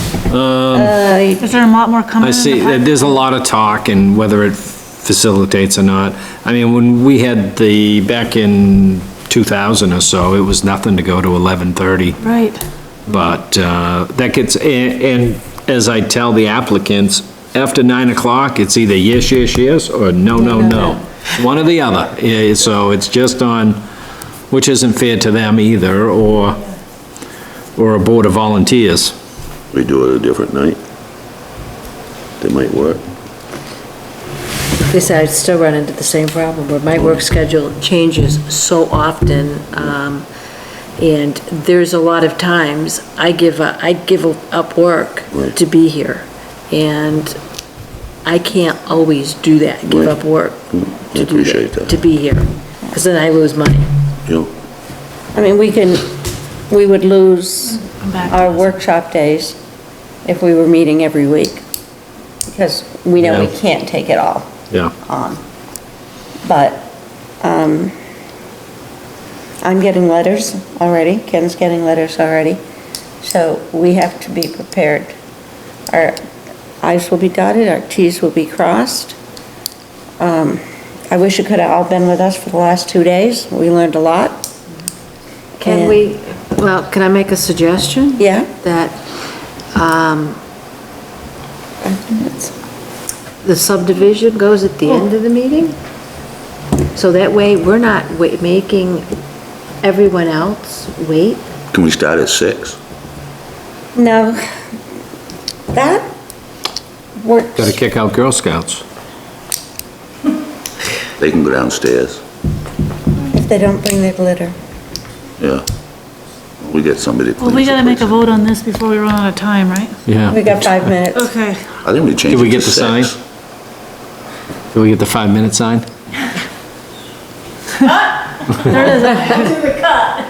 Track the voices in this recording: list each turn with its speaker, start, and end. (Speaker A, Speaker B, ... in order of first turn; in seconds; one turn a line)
Speaker A: 0.3-0.9
Speaker B: 0.7-1.4
Speaker C: 1.4-3.0
Speaker A: 2.2-12.2
Speaker C: 12.2-12.6
Speaker A: 13.1-23.8
Speaker D: 20.7-21.0
Speaker A: 24.5-26.6
Speaker A: 27.8-29.1
Speaker E: 29.7-30.8
Speaker E: 32.4-33.0
Speaker D: 34.9-40.2
Speaker D: 41.0-47.4
Speaker D: 48.2-53.9
Speaker E: 49.9-50.2
Speaker E: 50.7-52.0
Speaker B: 55.3-56.1
Speaker B: 56.7-59.6
Speaker C: 57.9-58.6
Speaker B: 60.2-61.6
Speaker B: 62.5-64.5
Speaker A: 63.2-63.5
Speaker B: 65.0-65.4
Speaker B: 66.4-66.9
Speaker B: 67.4-67.9
Speaker B: 69.6-72.6
Speaker B: 73.2-75.1
Speaker B: 75.9-76.2
Speaker B: 76.8-79.2
Speaker B: 80.2-84.5
Speaker D: 85.6-89.0
Speaker B: 85.6-86.0
Speaker B: 88.2-88.5
Speaker D: 89.7-90.4
Speaker B: 91.8-92.5
Speaker D: 93.4-95.8
Speaker D: 96.9-99.1
Speaker D: 99.8-101.5
Speaker E: 101.7-102.8
Speaker B: 103.9-104.4
Speaker B: 105.7-106.1
Speaker B: 107.2-107.8
Speaker A: 107.5-108.8
Speaker E: 111.2-112.2
Speaker B: 113.3-114.5
Speaker E: 115.4-115.6
Speaker E: 116.6-118.4
Speaker C: 117.4-119.9
Speaker A: 120.1-120.7
Speaker B: 120.3-121.3
Speaker E: 121.8-123.1
Speaker A: 122.3-123.1
Speaker A: 124.7-125.9
Speaker C: 128.6-130.1